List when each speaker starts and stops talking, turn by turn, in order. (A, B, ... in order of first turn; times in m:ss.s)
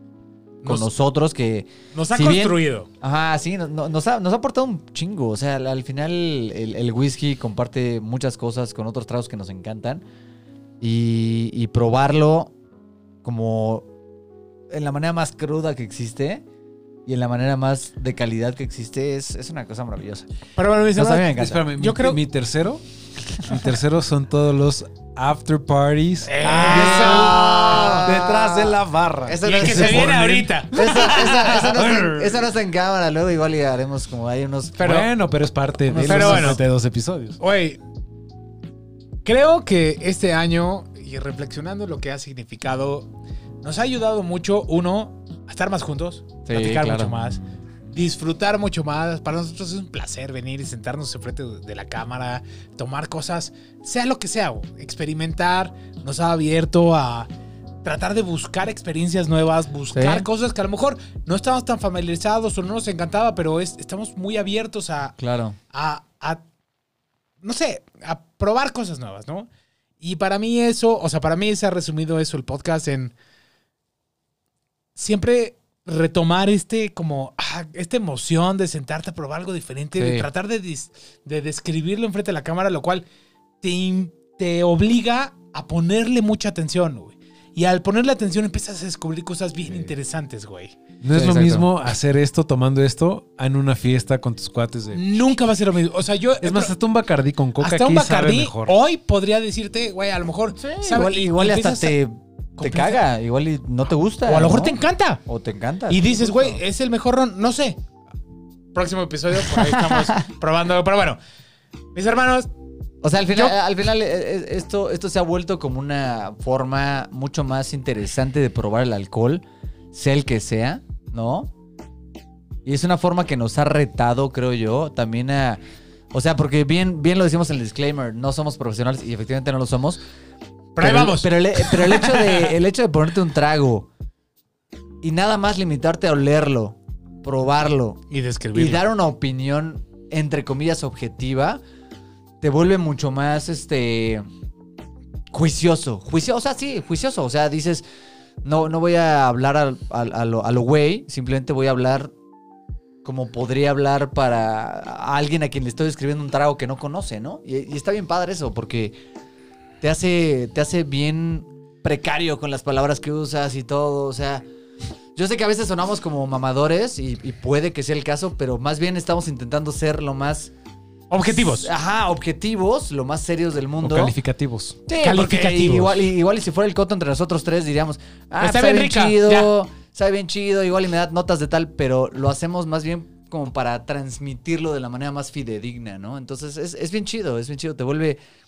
0:00.6-0:00.9 A
0:00.6-0:10.0 B
0:01.9-0:02.9 A
0:10.8-0:12.5 B
0:13.2-0:13.9 B
0:14.7-0:16.4 B
0:17.1-0:20.3 B
0:20.6-0:22.2 A
0:20.9-0:21.6 B
0:21.3-0:22.8 C
0:23.4-0:30.6 C
0:26.3-0:28.1 A
0:26.4-0:34.9 B
0:29.4-0:31.8 A
0:31.7-0:32.4 C
0:34.8-0:35.1 A
0:34.8-0:37.4 C
0:35.9-0:36.6 B
0:36.0-0:36.6 A
0:37.4-0:37.8 A
0:39.2-0:43.1 A
0:43.6-0:47.4 A
0:46.5-0:47.1 B
0:47.9-0:57.3 A
0:57.8-1:05.2 A
0:59.9-1:00.3 B
1:05.2-1:05.6 B
1:05.7-1:06.4 A
1:07.4-1:09.5 A
1:10.0-1:13.1 A
1:15.0-1:23.0 A
1:20.0-1:20.3 B
1:23.6-1:30.8 A
1:31.0-1:35.3 C
1:31.1-1:31.7 B
1:34.9-1:36.7 A
1:36.4-1:38.8 C
1:37.6-1:42.0 A
1:40.6-1:46.6 B
1:42.6-1:43.0 A
1:44.3-1:45.2 A
1:45.9-1:47.8 A
1:48.7-1:51.2 A
1:49.5-1:50.2 B
1:52.0-1:52.5 A
1:53.0-2:01.5 B
2:02.6-2:05.6 B
2:06.1-2:10.0 B
2:10.8-2:12.6 A
2:10.8-2:13.9 B
2:15.0-2:18.0 B
2:18.1-2:18.8 A
2:18.5-2:21.6 B
2:22.4-2:24.3 B
2:25.3-2:27.8 B
2:28.4-2:32.1 B
2:33.0-2:39.0 B
2:39.8-2:44.5 B
2:45.2-2:50.5 B
2:51.1-2:51.7 A
2:51.2-2:54.1 B
2:53.8-2:54.8 C
2:54.9-3:08.2 B
2:55.0-2:56.0 A
2:58.4-2:59.5 A